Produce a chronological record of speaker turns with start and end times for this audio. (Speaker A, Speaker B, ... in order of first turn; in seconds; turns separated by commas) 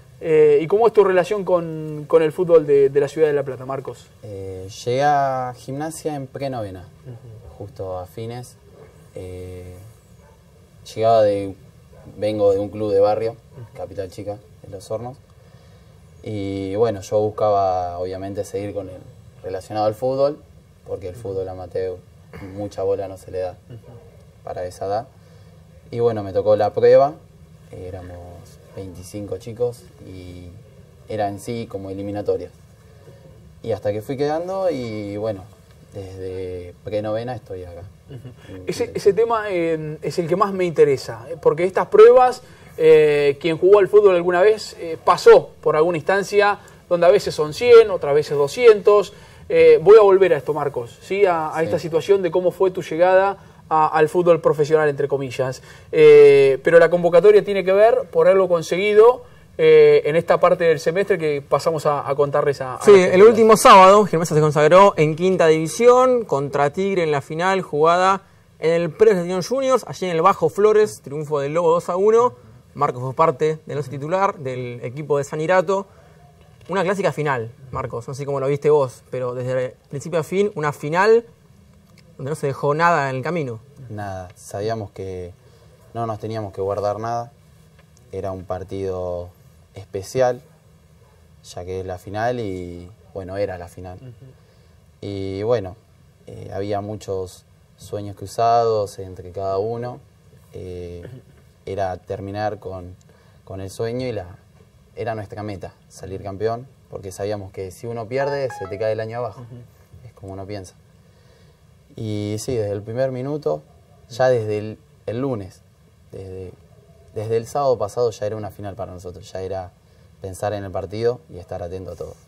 Speaker A: 0.2-4.1, Speaker B: 4.2-6.9, Speaker B: 7.5-8.6, Speaker B: 9.1-9.9, Speaker B: 10.8-11.6, Speaker B: 12.1-15.2, Speaker B: 16.2-23.6, Speaker B: 24.4-25.1, Speaker B: 25.9-27.2, Speaker B: 27.7-32.5, Speaker B: 33.6-37.9, Speaker A: 38.3-63.4, Speaker B: 38.4-39.0, Speaker C: 62.8-75.9, Speaker C: 76.7-81.3, Speaker C: 82.2-83.6, Speaker B: 83.9-85.3, Speaker B: 85.9-87.3, Speaker B: 88.1-90.4, Speaker B: 91.4-94.0, Speaker B: 95.0-104.4, Speaker B: 105.0-109.5, Speaker B: 110.0-110.8, Speaker B: 111.9-116.6, Speaker B: 117.1-122.2